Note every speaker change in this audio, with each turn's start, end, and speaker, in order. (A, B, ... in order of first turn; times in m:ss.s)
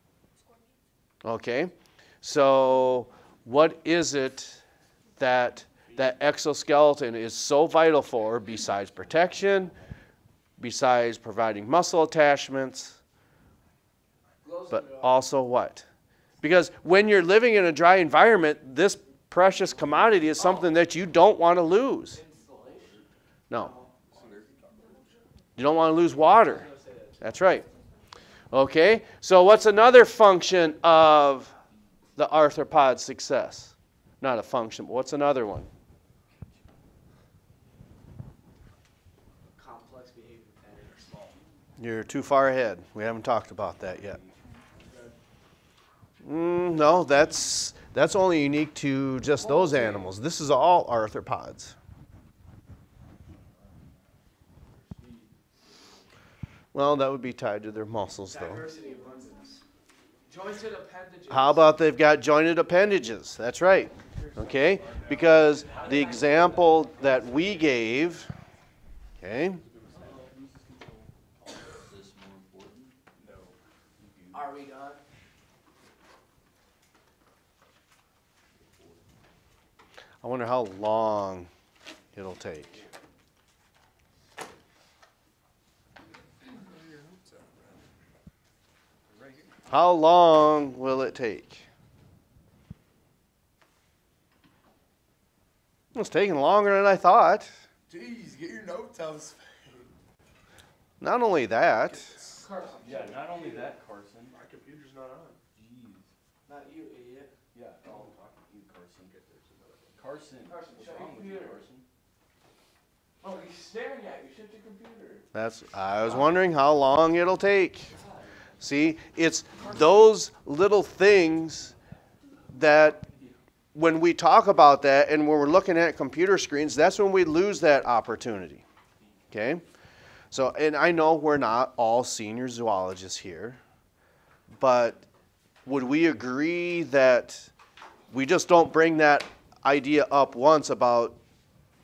0:01.2-0:04.6 A
0:05.2-0:09.7 A
0:10.6-0:13.0 A
0:14.4-0:15.2 B
0:14.7-0:15.8 A
0:16.4-0:22.2 A
0:20.4-0:20.7 B
0:22.1-0:22.9 B
0:22.8-0:23.0 C
0:23.5-0:23.9 B
0:24.1-0:24.8 C
0:24.1-0:24.9 D
0:25.6-0:26.7 A
0:26.4-0:27.2 B
0:27.2-0:27.7 A
0:28.5-0:31.5 A
0:32.2-0:35.7 A
0:39.5-0:41.4 B
0:41.8-0:44.2 A
0:44.8-0:45.1 B
0:46.2-0:51.8 A
0:49.3-0:50.1 B
0:54.9-0:55.3 C
0:56.7-0:58.7 A
0:58.2-0:59.6 B
1:00.3-1:01.8 B
1:01.3-1:08.3 A
1:04.0-1:04.7 B
1:05.0-1:05.5 D
1:05.6-1:07.6 B
1:09.2-1:09.6 A
1:09.6-1:11.1 D
1:09.9-1:10.2 C
1:11.5-1:13.1 C
1:13.2-1:13.5 D
1:14.0-1:14.4 C
1:14.3-1:15.0 B
1:20.2-1:21.5 A
1:22.1-1:22.8 A
1:27.1-1:27.4 D
1:29.7-1:31.7 A
1:35.9-1:37.5 A
1:37.9-1:39.9 D
1:41.0-1:42.1 A
1:42.0-1:43.0 D
1:42.3-1:43.6 B
1:42.8-1:44.4 C
1:44.3-1:45.4 D
1:45.5-1:46.1 C
1:46.4-1:47.3 B
1:47.5-1:51.8 C
1:50.4-1:51.6 B
1:53.2-1:55.2 B
1:55.3-1:58.0 A
1:58.6-2:01.7 A
2:02.5-2:03.0 A
2:03.7-2:08.6 A
2:09.3-2:09.6 A
2:10.3-2:13.6 A
2:14.6-2:15.1 A
2:15.6-2:17.5 A
2:18.1-2:21.2 A